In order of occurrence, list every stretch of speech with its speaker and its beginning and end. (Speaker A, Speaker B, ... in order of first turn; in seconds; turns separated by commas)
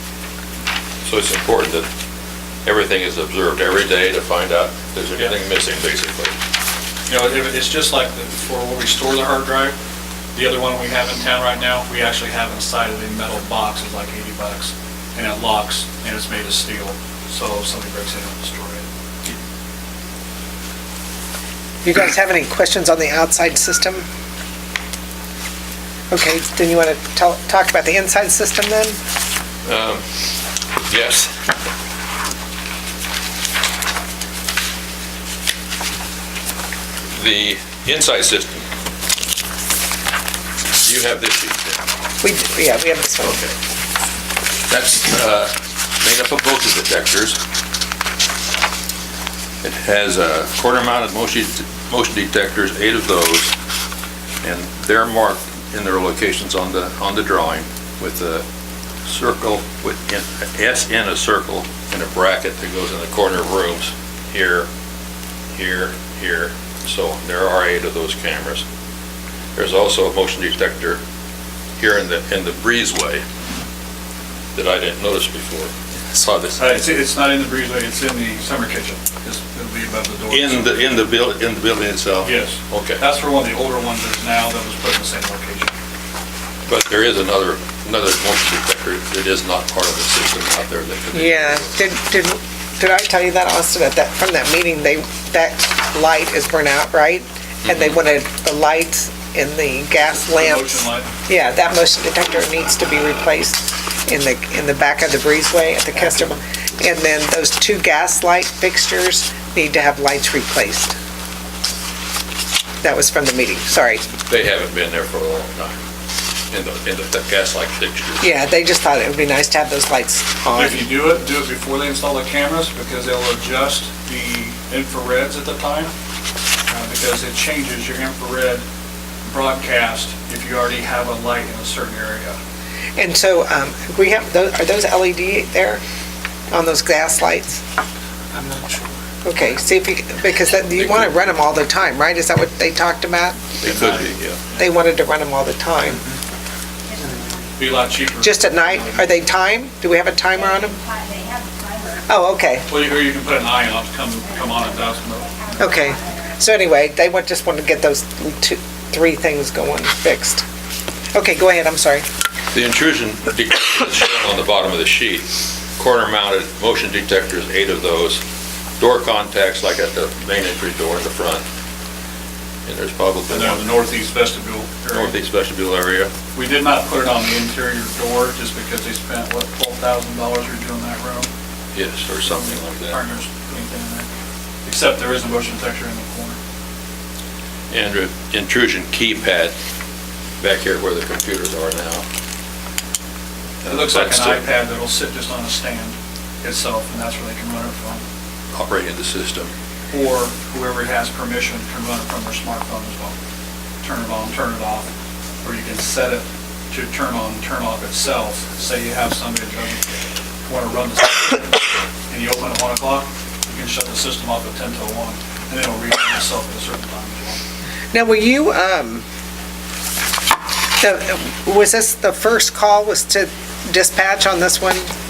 Speaker A: 1.1-1.9, Speaker A: 2.6-6.3, Speaker B: 7.1-9.8, Speaker B: 10.3-19.3, Speaker C: 21.8-24.1, Speaker C: 26.1-29.0, Speaker A: 29.6-30.0, Speaker A: 30.9-31.3, Speaker A: 37.2-38.7, Speaker A: 40.8-41.8, Speaker C: 42.2-43.4, Speaker A: 43.2-43.5, Speaker A: 44.7-47.4, Speaker A: 49.6-53.5, Speaker A: 54.4-58.4, Speaker A: 59.0-64.7, Speaker A: 65.6-68.6, Speaker A: 69.6-71.0, Speaker A: 71.8-73.2, Speaker A: 74.5-76.8, Speaker B: 76.6-80.9, Speaker A: 80.3-83.0, Speaker B: 82.2-85.7, Speaker A: 86.7-91.7, Speaker C: 91.1-111.0, Speaker A: 97.6-98.0, Speaker B: 100.3-101.1, Speaker C: 112.8-114.1, Speaker A: 114.3-115.8, Speaker A: 116.5-118.3, Speaker C: 118.2-120.9, Speaker B: 120.5-125.9, Speaker B: 126.7-128.6, Speaker B: 129.2-132.4, Speaker C: 133.0-135.8, Speaker C: 136.5-137.6, Speaker C: 139.2-143.5, Speaker A: 140.7-141.2, Speaker A: 143.6-144.4, Speaker B: 143.6-144.6, Speaker C: 144.6-146.0, Speaker D: 146.8-147.6, Speaker B: 147.6-149.2, Speaker C: 148.2-150.8, Speaker D: 150.3-152.1, Speaker C: 152.1-152.7, Speaker B: 152.7-155.6, Speaker D: 154.2-156.4, Speaker C: 155.6-160.4, Speaker C: 161.1-162.0, Speaker A: 162.5-168.2, Speaker A: 168.8-171.4, Speaker A: 172.7-173.7, Speaker B: 173.3-175.1, Speaker A: 174.9-176.1, Speaker B: 176.3-181.3, Speaker A: 181.7-183.0, Speaker B: 182.2-184.1, Speaker B: 184.7-186.4, Speaker A: 187.7-189.6, Speaker A: 190.4-192.0, Speaker A: 193.6-194.4, Speaker B: 193.7-198.0, Speaker A: 198.5-199.5, Speaker B: 199.9-203.2, Speaker B: 203.8-204.9, Speaker B: 205.4-209.8, Speaker B: 210.5-211.6, Speaker B: 212.1-217.4, Speaker C: 217.9-219.1, Speaker C: 220.8-224.9